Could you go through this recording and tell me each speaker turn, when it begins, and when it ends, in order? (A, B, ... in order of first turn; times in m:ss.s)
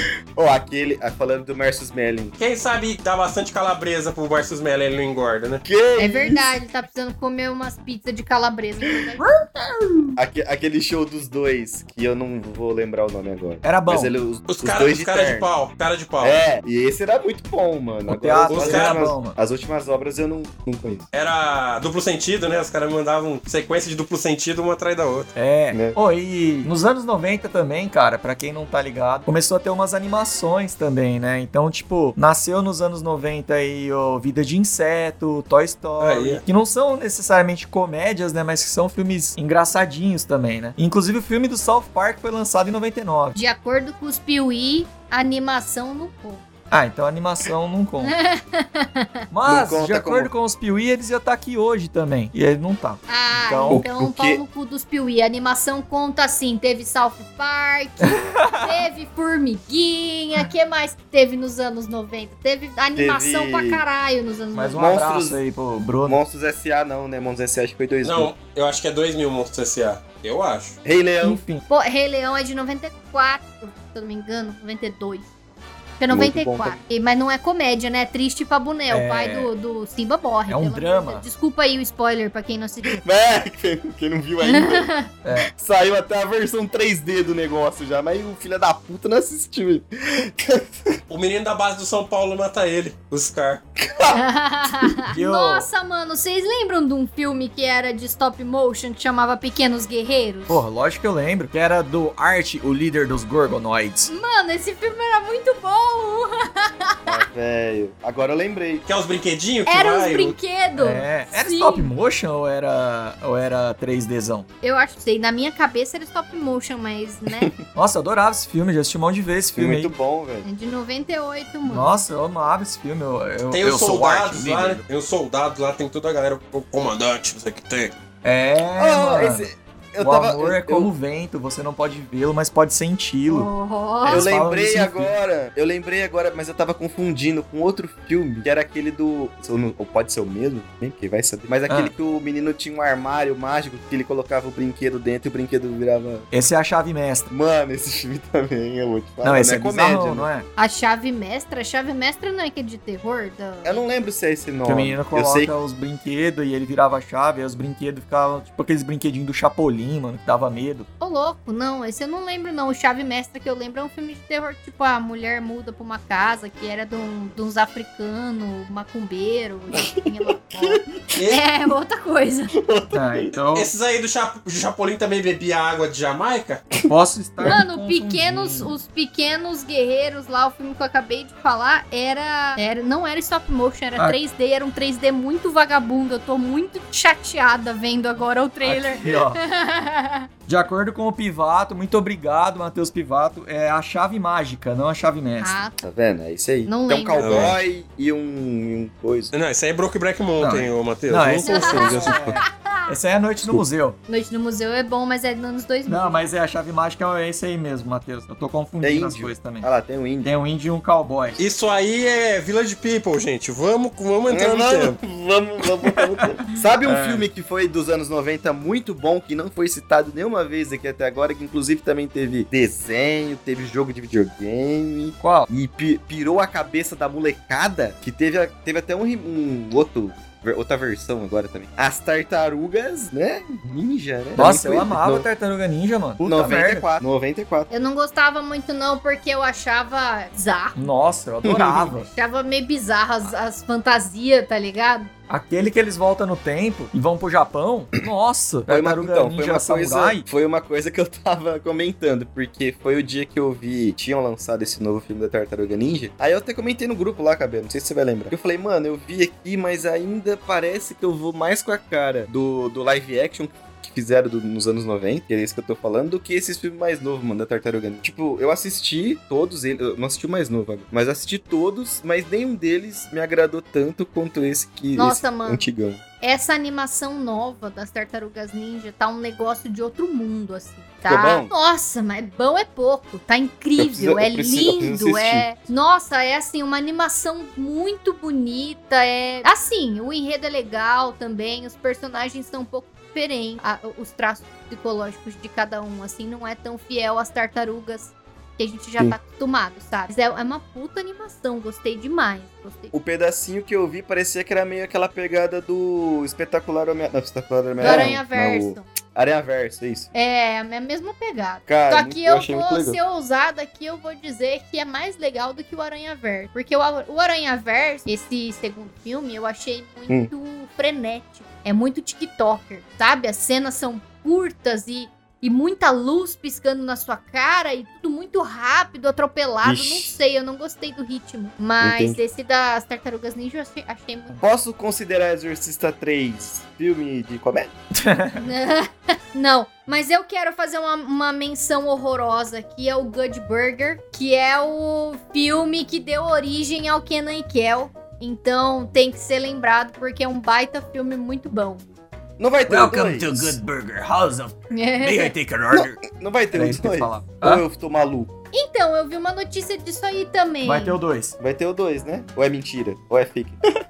0:00.3-0:02.3 A
0:02.4-0:05.6 B
0:05.6-0:06.5 A
0:06.0-0:09.2 C
0:09.2-0:10.2 D
0:10.2-0:15.5 A
0:13.6-0:14.1 D
0:14.5-0:16.4 B
0:16.2-0:21.1 A
0:18.0-0:19.4 D
0:18.5-0:19.0 B
0:21.1-0:25.3 B
0:25.3-0:43.4 D
0:25.7-0:26.0 A
0:36.0-0:36.4 B
0:43.3-0:46.4 C
0:46.7-0:48.2 D
0:48.0-0:49.1 C
0:49.3-0:53.9 D
0:49.4-0:50.3 A
0:53.1-1:05.0 C
0:53.7-0:54.4 A
0:58.0-0:58.8 D
1:03.0-1:03.8 A
1:04.5-1:06.2 D
1:04.8-1:05.4 A
1:06.1-1:08.3 A
1:08.0-1:10.8 B
1:10.8-1:11.4 A
1:11.2-1:11.6 D
1:11.7-1:15.3 C
1:16.0-1:23.0 C
1:16.1-1:16.8 A
1:18.9-1:19.5 D
1:20.5-1:21.2 D
1:22.9-1:30.9 A
1:24.4-1:25.1 C
1:25.2-1:25.5 D
1:31.1-1:33.6 B
1:33.8-1:35.0 A
1:34.1-1:40.6 C
1:35.1-1:35.7 D
1:40.5-1:44.1 D
1:44.1-1:47.0 C
1:47.0-1:48.8 A
1:48.8-1:50.4 B
1:49.7-1:51.9 C
1:50.8-1:54.5 D
1:54.6-1:57.5 C
1:57.3-1:57.6 A
1:57.7-1:59.9 D
1:59.5-2:00.4 A
2:00.4-2:02.0 C
2:01.6-2:04.8 D
2:03.5-2:07.9 B
2:08.2-2:09.5 D
2:08.8-2:10.9 A
2:10.0-2:13.5 D
2:13.3-2:14.3 C
2:14.0-2:15.1 D
2:14.0-2:26.3 A
2:26.3-2:27.3 D
2:27.3-2:30.2 A
2:29.2-2:30.5 D
2:30.6-2:33.8 C
2:33.6-2:35.5 A
2:34.6-2:40.9 D
2:41.0-2:52.5 C
2:50.5-2:51.2 A
2:52.6-2:53.3 A
2:52.9-2:53.7 D
2:53.5-2:56.6 B
2:56.8-2:58.7 D
2:57.5-3:10.3 C
3:08.6-3:09.4 D
3:10.5-3:15.5 D
3:15.4-3:15.8 C
3:15.8-3:19.3 A
3:16.6-3:17.5 C
3:17.2-3:17.6 B
3:19.3-3:22.4 B
3:20.4-3:24.0 D
3:21.4-3:22.7 C
3:24.1-3:26.3 C
3:25.9-3:29.7 D
3:28.8-3:30.3 A
3:30.2-3:31.4 D
3:31.4-3:35.0 B
3:34.3-3:55.2 A
3:36.8-3:37.3 D
3:45.2-3:45.5 D
3:54.3-3:56.9 D
3:56.2-3:57.7 A
3:57.7-4:00.8 C
4:00.8-4:02.1 D
4:01.4-4:01.9 A
4:02.1-4:05.1 C
4:05.3-4:10.2 D
4:08.7-4:36.0 A
4:34.9-4:35.7 C
4:36.2-5:02.9 C
4:41.0-4:41.5 A
4:43.8-4:45.5 A
5:02.9-5:10.1 A
5:07.8-5:08.8 C
5:10.1-5:34.4 C
5:11.6-5:13.0 A
5:29.6-5:30.2 A
5:31.8-5:32.2 A
5:34.4-5:37.8 A
5:38.0-5:38.4 D
5:38.4-5:51.8 C
5:52.4-5:53.6 A
5:52.7-5:56.0 D
5:54.7-5:55.3 C
5:55.7-5:58.3 A
5:56.5-5:57.6 D
5:58.5-6:01.0 C
6:00.6-6:01.4 D
6:01.4-6:03.6 A